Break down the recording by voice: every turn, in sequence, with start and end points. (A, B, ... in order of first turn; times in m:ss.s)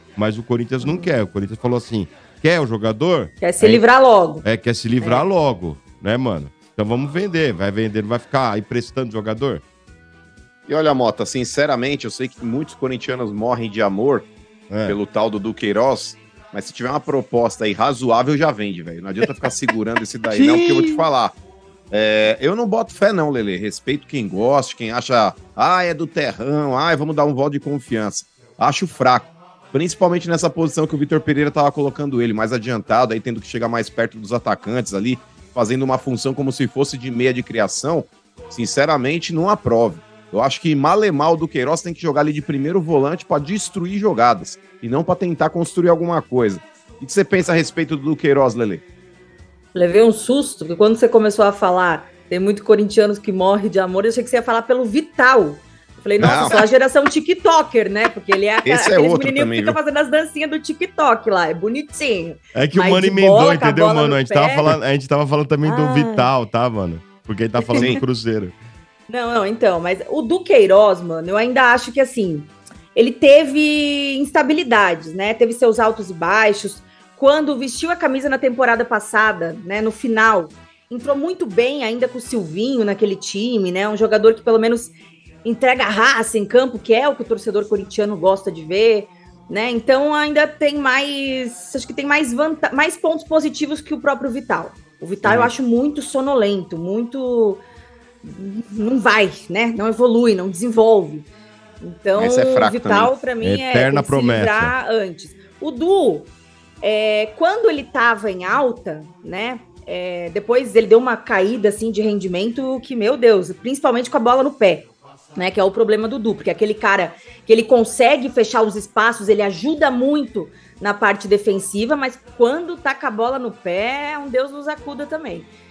0:00.2-0:03.8 A
0:03.4-0:04.4 B
0:04.4-0:09.6 A
0:05.0-0:05.2 B
0:10.7-0:14.3 C
0:14.7-0:15.0 A
0:14.8-0:21.4 C
0:21.9-0:48.8 C
0:49.7-1:04.6 B
0:56.2-0:56.6 C
0:58.6-0:59.8 C
1:02.5-1:08.6 A
1:05.6-1:06.3 B
1:07.8-1:08.0 C
1:09.1-1:24.9 B
1:25.4-1:37.6 B
1:35.2-1:35.5 C
1:38.2-1:41.2 B
1:41.8-1:46.3 B
1:42.2-1:43.1 C
1:43.4-1:44.7 A
1:46.8-2:05.5 B